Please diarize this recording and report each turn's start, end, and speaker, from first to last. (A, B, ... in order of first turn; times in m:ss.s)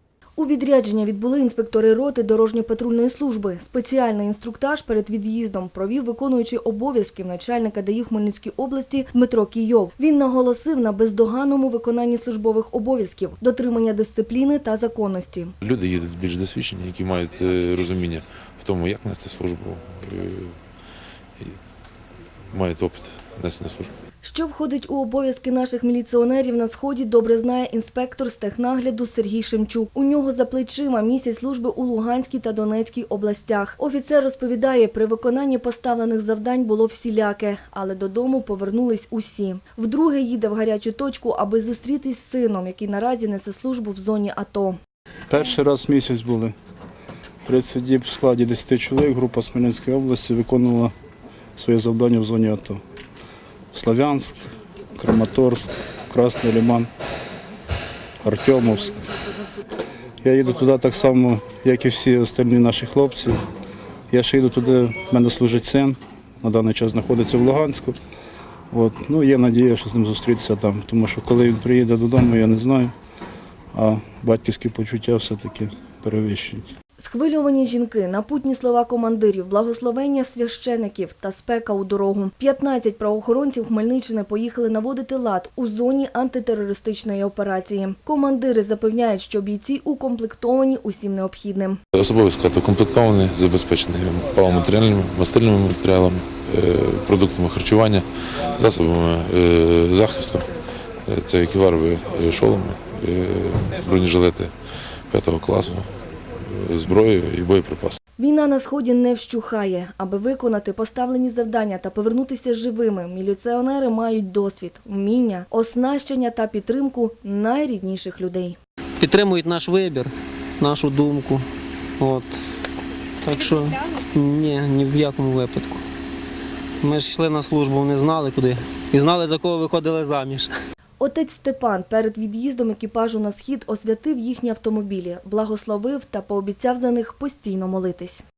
0:00.4-0:15.5 A
0:15.6-0:20.6 B
0:22.5-0:23.9 B
0:24.2-0:44.8 A
0:45.3-0:46.5 C
0:47.5-0:50.9 C
0:51.6-0:52.8 C
0:53.7-0:56.9 C
0:58.2-0:59.0 C
1:00.2-1:03.4 C
1:04.1-1:08.0 C
1:08.7-1:12.9 C
1:13.7-1:16.7 C
1:17.0-1:31.8 A
1:32.0-1:40.5 B
1:41.1-1:44.5 B
1:45.1-1:48.0 B
1:48.2-1:58.6 A
1:59.0-2:01.4 D
2:02.0-2:02.4 D
2:03.2-2:05.8 D
2:06.8-2:10.5 D
2:11.0-2:18.2 A